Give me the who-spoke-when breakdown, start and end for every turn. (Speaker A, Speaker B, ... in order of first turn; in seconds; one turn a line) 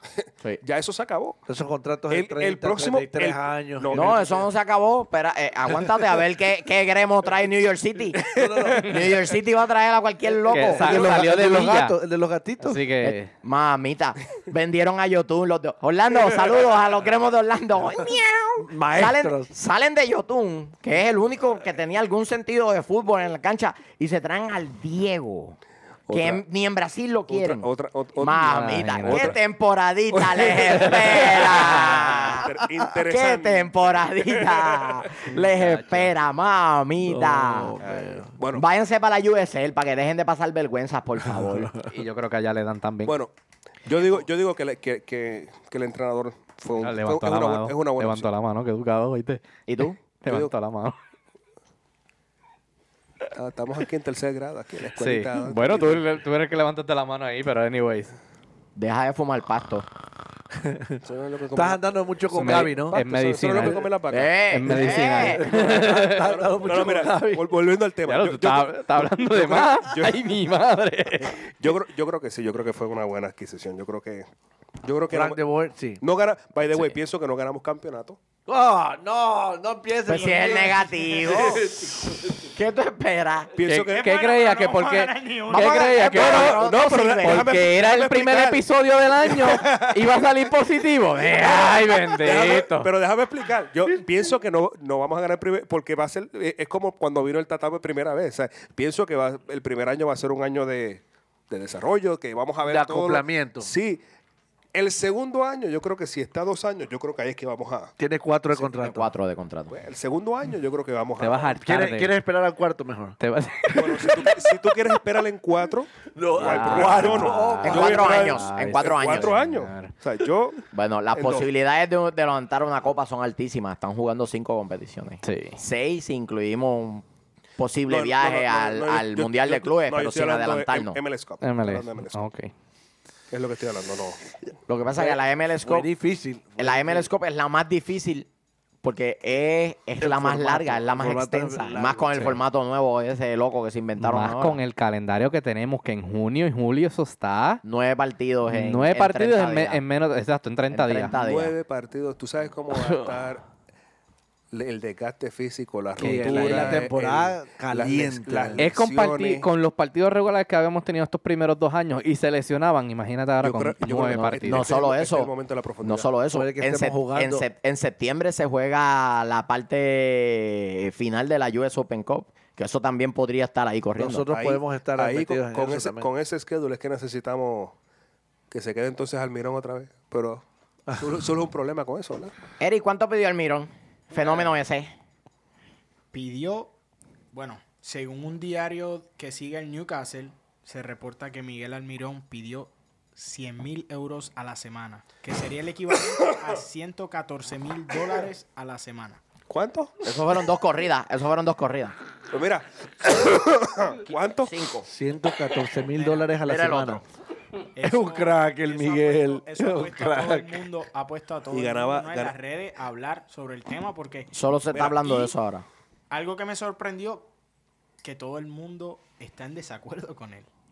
Speaker A: 0.6-1.4
Speaker B: 1.5-4.4
Speaker A: 2.1-4.3
Speaker C: 3.9-11.1
Speaker B: 8.3-9.2
Speaker D: 10.5-12.0
Speaker B: 10.5-12.8
Speaker D: 12.6-13.3
Speaker C: 13.0-25.6
Speaker B: 18.6-19.5
Speaker A: 26.1-26.4
Speaker C: 26.1-32.5
Speaker A: 27.3-28.5
Speaker D: 28.4-29.4
Speaker A: 29.0-29.4
Speaker A: 30.1-35.2
Speaker D: 30.7-32.1
Speaker C: 33.0-37.8
Speaker B: 35.3-36.1
Speaker B: 37.0-38.3
Speaker A: 37.8-38.7
Speaker C: 38.5-41.7
Speaker B: 41.4-41.9
Speaker D: 41.9-43.2
Speaker A: 43.0-43.3
Speaker A: 43.9-48.3
Speaker D: 46.8-49.4
Speaker C: 49.7-50.0
Speaker D: 50.2-51.0
Speaker A: 50.3-50.5
Speaker A: 53.3-56.0
Speaker D: 55.0-58.1
Speaker C: 58.8-59.9
Speaker B: 60.6-61.0
Speaker A: 61.0-61.8
Speaker B: 61.5-63.0
Speaker D: 62.3-63.9
Speaker A: 62.3-68.8
Speaker C: 64.1-65.4
Speaker D: 64.5-66.3
Speaker B: 64.7-67.5
Speaker D: 68.1-71.5
Speaker A: 69.3-70.2
Speaker A: 71.2-74.3
Speaker A: 74.8-75.4
Speaker B: 75.1-76.0
Speaker A: 76.0-78.2
Speaker B: 78.5-82.5
Speaker C: 80.0-81.7
Speaker A: 81.3-81.7
Speaker C: 82.5-83.5
Speaker A: 83.6-84.2
Speaker D: 83.6-92.9
Speaker E: 83.9-86.1
Speaker C: 85.5-87.5
Speaker A: 86.1-88.6
Speaker A: 89.2-90.0
Speaker A: 91.4-104.0
Speaker B: 102.7-103.7
Speaker A: 104.7-107.9
Speaker B: 108.0-109.1
Speaker C: 108.6-109.8
Speaker A: 109.7-111.5
Speaker D: 111.2-112.2
Speaker B: 111.6-113.2
Speaker D: 113.2-114.5
Speaker A: 113.7-120.6
Speaker B: 116.2-118.3
Speaker D: 116.4-119.9
Speaker C: 117.6-119.3
Speaker C: 120.7-127.0
Speaker A: 121.1-121.5
Speaker D: 125.2-125.6
Speaker C: 127.6-131.0
Speaker A: 127.9-132.2
Speaker D: 131.4-132.5
Speaker A: 133.3-134.2
Speaker C: 134.7-135.9
Speaker B: 135.0-137.1
Speaker C: 136.6-138.3
Speaker C: 138.8-144.6
Speaker B: 140.0-142.4
Speaker D: 144.0-147.6
Speaker C: 147.6-149.8
Speaker D: 148.5-151.1
Speaker C: 150.7-151.6
Speaker A: 151.1-153.4
Speaker D: 152.7-153.0
Speaker A: 154.5-159.5
Speaker B: 156.0-158.7
Speaker D: 156.0-156.8
Speaker D: 158.6-164.7
Speaker A: 163.4-166.1
Speaker C: 164.3-174.3
Speaker B: 166.3-167.4
Speaker B: 174.0-176.1
Speaker A: 174.3-177.8
Speaker A: 178.5-182.3
Speaker C: 182.6-184.9
Speaker E: 186.1-186.7
Speaker E: 187.3-199.2
Speaker A: 199.5-199.9
Speaker C: 200.0-201.9
Speaker A: 202.3-204.6
Speaker C: 204.4-204.9
Speaker B: 204.8-207.0
Speaker E: 206.0-206.2
Speaker C: 206.4-207.0
Speaker E: 207.8-214.3
Speaker B: 207.8-210.6
Speaker A: 211.5-212.3
Speaker C: 214.3-215.7
Speaker A: 214.7-215.3
Speaker E: 216.1-217.3
Speaker E: 218.0-220.5